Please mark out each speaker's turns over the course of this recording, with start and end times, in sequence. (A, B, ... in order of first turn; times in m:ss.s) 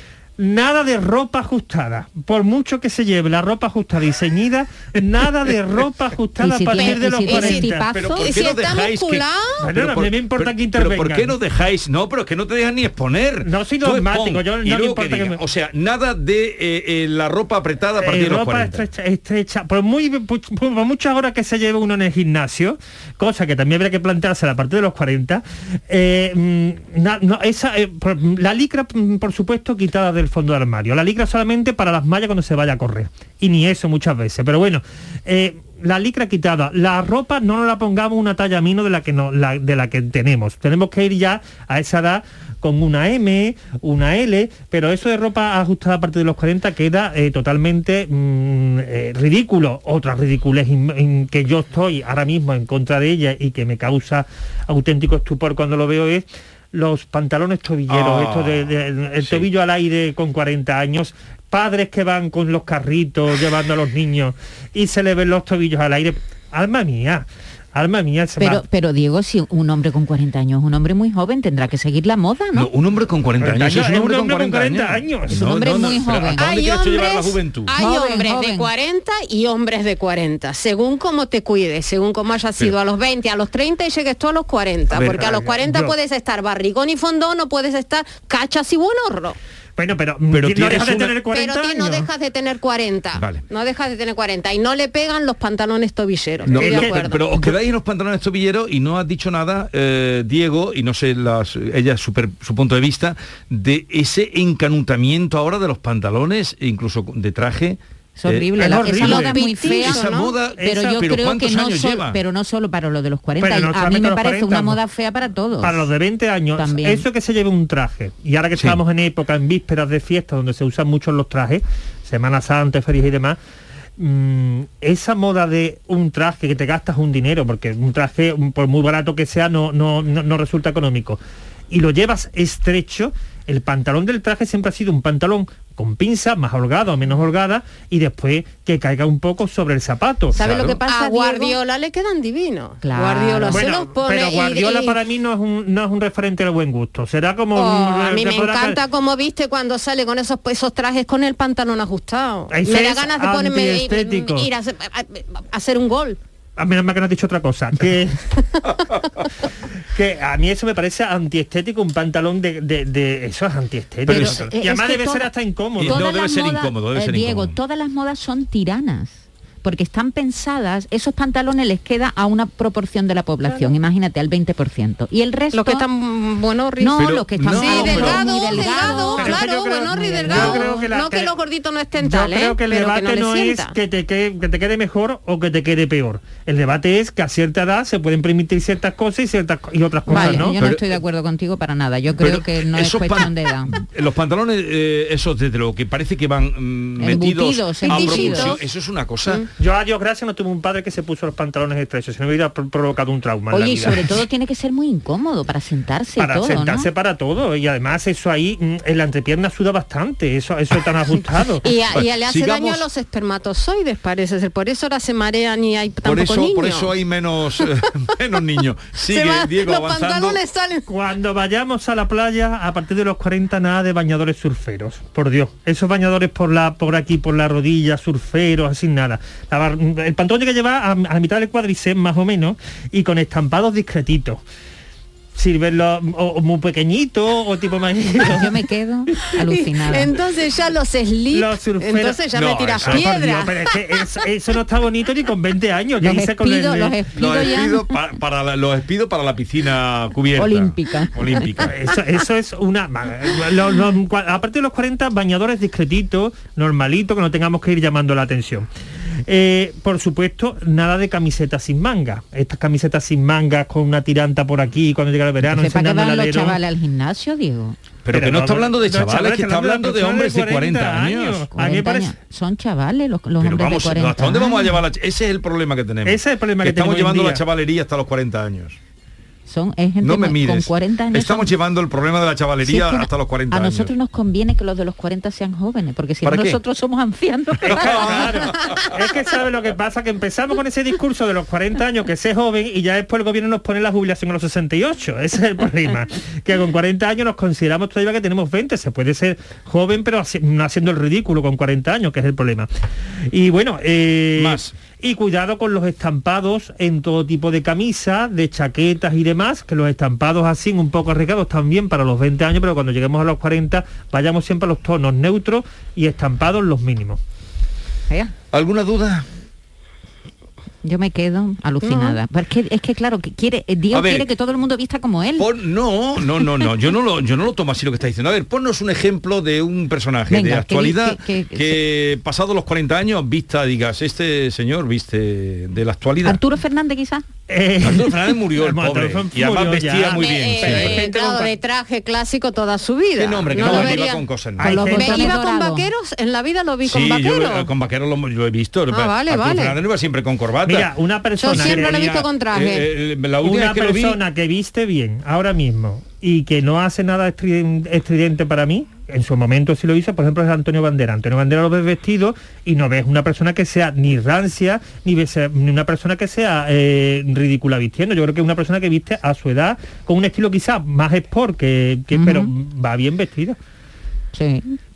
0:00.4-0:07.9 A
0:06.4-0:08.3 B
0:06.7-0:09.6 C
0:07.9-0:18.8 D
0:09.6-0:11.4 A
0:13.4-0:15.4 A
0:18.0-1:08.6 A
0:57.9-0:59.5 D
1:08.4-1:12.7 B
1:12.5-1:17.7 D
1:13.4-1:15.4 A
1:15.3-1:16.5 B
1:16.4-1:29.4 C
1:17.7-1:18.7 B
1:24.9-1:25.3 D
1:25.0-1:25.9 A
1:29.8-1:32.1 A
1:30.3-1:31.2 D
1:31.3-1:37.2 C
1:33.1-1:33.4 D
1:36.4-1:48.8 D
1:36.5-1:37.0 A
1:48.2-1:50.0 B
1:48.6-1:49.4 A
1:48.9-1:50.3 C
1:49.6-1:52.2 D
1:50.6-1:50.9 A
1:50.6-1:55.9 B
1:53.4-1:54.8 A
1:55.6-2:03.4 A
1:56.6-1:57.0 B
2:04.0-2:20.4 A
2:20.3-2:20.8 D
2:20.4-2:21.6 B
2:20.4-2:25.0 C
2:22.8-2:23.6 B
2:23.5-2:28.8 A
2:27.6-2:36.2 C
2:32.5-2:34.5 A
2:36.6-2:38.2 A
2:39.9-2:46.0 A
2:44.1-2:44.4 D
2:44.1-2:45.3 B
2:45.8-2:47.6 D
2:45.8-2:55.8 B
2:53.4-2:53.7 C
2:55.5-3:03.7 C
2:56.8-2:59.4 B
2:57.0-2:59.0 D
2:58.3-3:01.3 A
3:02.0-3:10.5 A
3:10.1-3:13.7 B
3:10.1-3:10.9 D
3:12.2-3:19.4 D
3:17.0-3:18.5 B
3:17.9-3:18.6 C
3:19.6-3:24.1 A
3:23.5-3:26.9 B
3:26.2-3:31.6 A
3:31.6-3:36.9 C
3:31.9-3:32.8 D
3:36.0-3:40.4 D
3:39.1-3:40.8 C
3:40.9-3:54.4 A
3:55.3-3:58.5 A
3:58.3-4:00.1 B
3:59.4-4:04.0 C
4:01.3-4:02.2 A
4:02.3-4:03.1 D
4:02.8-4:07.0 A
4:06.0-4:07.9 B
4:07.1-4:11.7 D
4:10.4-4:11.6 B
4:11.7-4:18.7 A
4:19.3-4:26.6 A
4:25.4-4:27.8 B
4:28.0-4:31.5 D
4:28.1-4:32.1 A
4:31.5-4:34.8 B
4:33.4-4:38.8 D
4:36.0-4:37.4 A
4:39.5-4:41.5 B
4:40.0-4:43.9 D
4:42.6-4:48.3 B
4:46.2-4:46.6 D
4:47.6-5:02.7 A
4:47.6-4:49.0 D
5:03.3-5:17.2 A
5:04.4-5:04.7 D
5:18.5-5:19.2 D
5:20.8-5:25.5 B
5:21.8-5:22.2 C
5:23.9-5:24.3 D
5:25.4-5:36.4 D
5:30.3-5:31.8 B
5:36.2-5:37.2 B
5:37.5-5:41.1 A
5:37.8-5:41.5 D
5:40.1-5:44.2 C
5:43.2-5:44.9 D
5:43.6-5:44.0 A
5:44.6-5:45.3 A
5:44.6-5:45.8 B
5:44.8-5:47.7 C
5:46.8-5:50.9 D
5:48.9-5:49.7 C
5:50.6-5:52.1 A
5:51.4-5:52.8 C
5:51.4-5:54.2 D
5:53.4-6:13.6 A
6:12.1-6:12.5 B
6:14.3-6:14.8 B